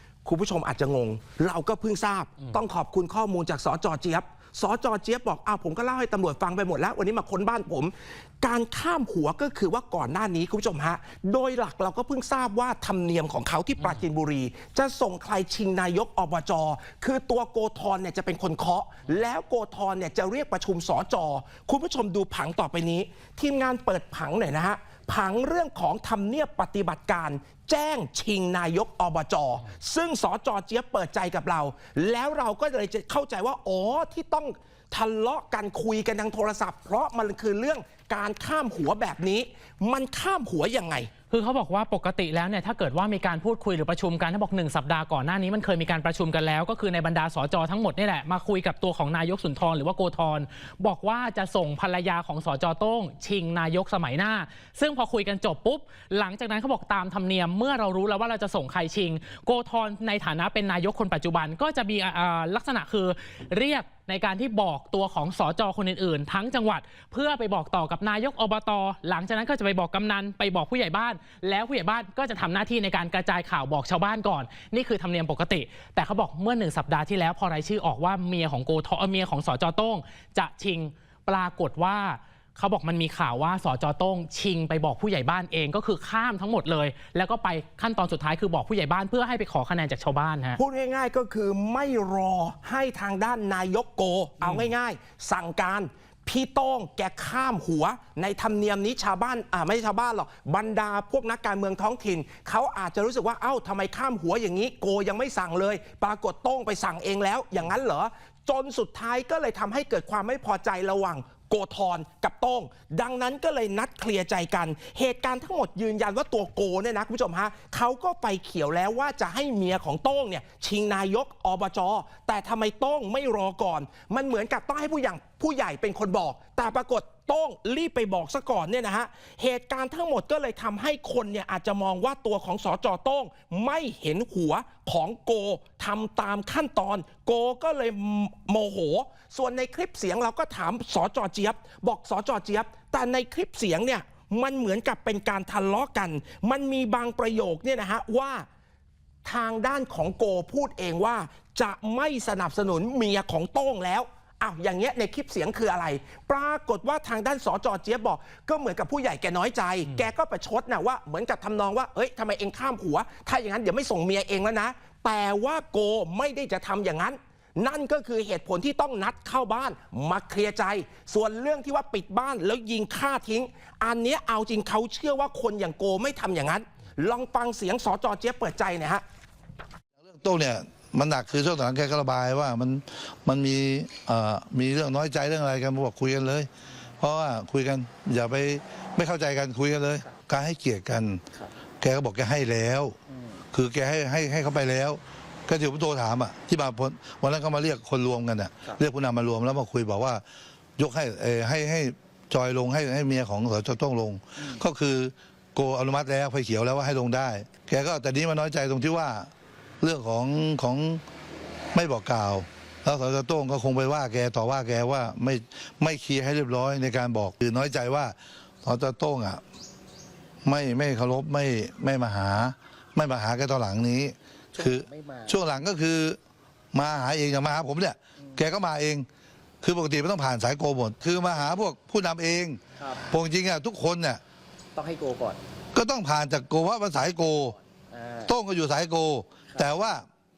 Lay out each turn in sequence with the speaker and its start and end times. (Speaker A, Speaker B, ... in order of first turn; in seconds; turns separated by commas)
Speaker A: 0.2-41.1, Speaker B: 41.3-90.6, Speaker A: 90.6-148.5, Speaker B: 94.4-94.7, Speaker A: 149.2-179.0, Speaker C: 180.0-191.2, Speaker C: 191.8-193.0, Speaker C: 193.5-200.2, Speaker C: 200.8-211.0, Speaker C: 211.7-219.4, Speaker C: 220.4-226.2, Speaker D: 224.6-225.4, Speaker C: 226.7-229.1, Speaker C: 229.6-234.2, Speaker D: 234.8-235.4, Speaker C: 235.7-237.6, Speaker D: 237.9-238.3, Speaker C: 238.2-240.1